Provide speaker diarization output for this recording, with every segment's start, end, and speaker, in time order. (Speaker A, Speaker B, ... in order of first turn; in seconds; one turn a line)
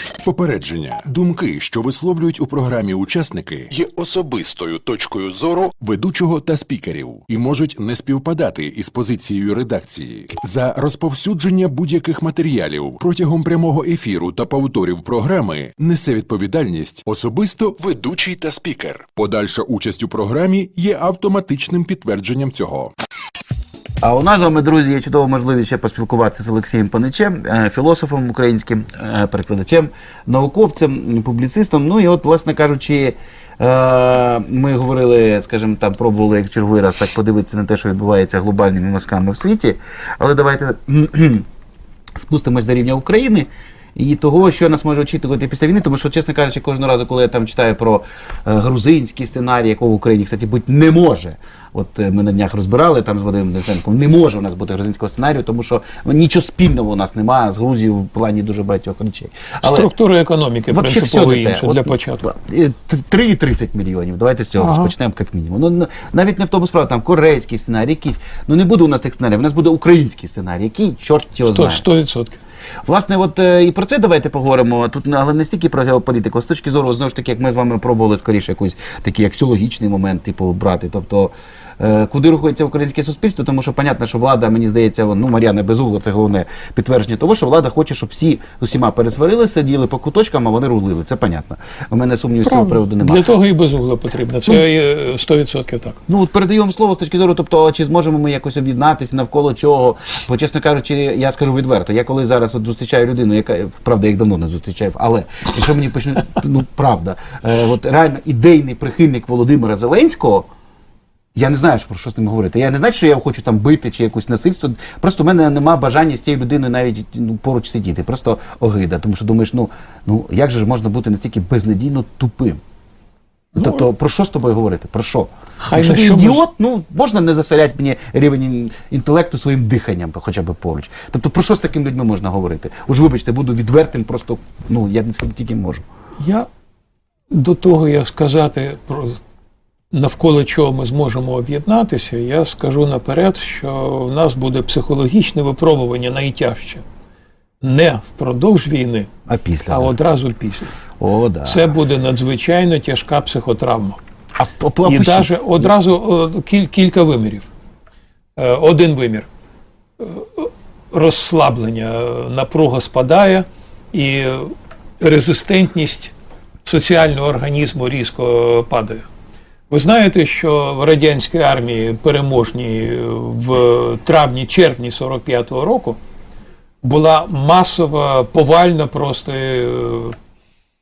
Speaker A: 0.2-22.9
Speaker B: 24.0-41.5
Speaker B: 42.1-59.9
Speaker C: 59.6-62.2
Speaker B: 60.7-71.8
Speaker C: 64.6-64.9
Speaker C: 71.4-72.4
Speaker B: 72.8-93.3
Speaker C: 92.4-96.0
Speaker B: 96.1-110.5
Speaker B: 111.3-122.6
Speaker C: 123.5-123.8
Speaker B: 123.6-135.8
Speaker C: 125.6-126.4
Speaker C: 136.2-136.5
Speaker C: 137.3-139.2
Speaker C: 139.9-146.8
Speaker C: 147.6-149.1
Speaker B: 149.3-149.9
Speaker C: 149.7-150.8
Speaker B: 151.0-151.7
Speaker C: 151.4-154.0
Speaker B: 154.3-155.7
Speaker C: 154.8-157.4
Speaker C: 158.4-159.3
Speaker C: 160.0-166.1
Speaker C: 166.6-169.1
Speaker C: 169.7-176.0
Speaker C: 176.8-180.2